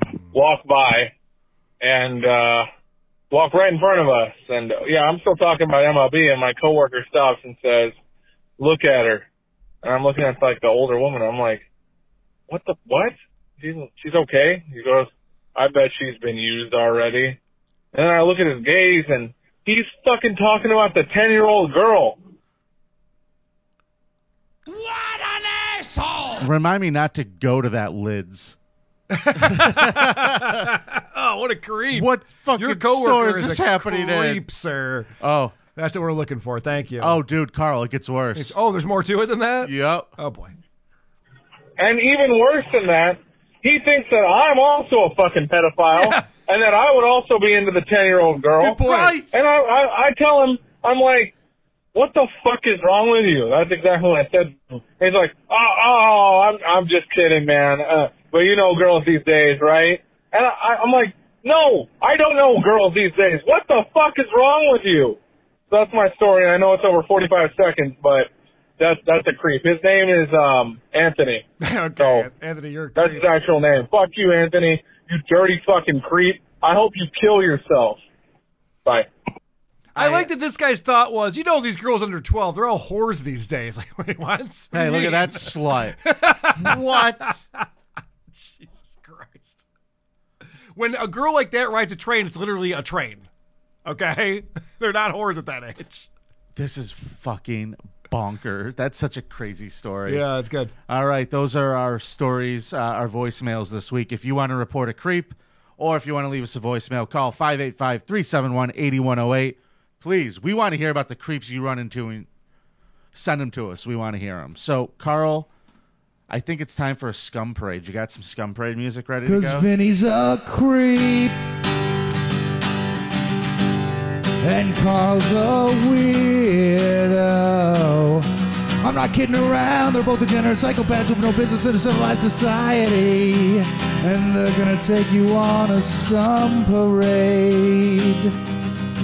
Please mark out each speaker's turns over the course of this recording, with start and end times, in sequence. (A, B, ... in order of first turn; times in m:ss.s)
0:00.3-0:01.1 A
0:01.8-0:02.7 A
0:03.3-0:07.9 A
0:08.6-0:09.2 A
0:09.8-0:11.6 A
0:12.5-0:17.4 A
0:17.9-0:22.2 A
0:26.4-0:28.6 B
0:29.1-0:35.1 C
0:29.4-0:30.7 B
0:31.9-0:34.4 B
0:35.2-0:35.6 B
0:35.7-0:37.2 C
0:37.0-0:38.6 B
0:38.3-0:40.5 C
0:39.6-0:40.1 B
0:41.8-0:51.3 A
0:45.9-0:46.3 C
0:48.6-0:49.3 C
0:48.6-0:49.5 B
0:51.9-1:05.2 A
1:05.7-1:11.4 A
1:11.6-1:13.3 C
1:12.0-1:12.3 A
1:13.0-1:18.0 A
1:19.9-1:27.6 C
1:20.0-1:20.3 B
1:24.7-1:26.0 B
1:26.5-1:27.4 B
1:28.3-1:29.6 C
1:30.7-1:33.3 C
1:33.8-1:36.1 C
1:36.5-1:40.2 B
1:40.1-1:40.7 C
1:40.9-1:52.3 B
1:53.1-1:55.5 B
1:56.3-1:59.7 B
1:59.2-2:01.4 D
2:04.4-2:08.3 D
2:08.8-2:18.3 D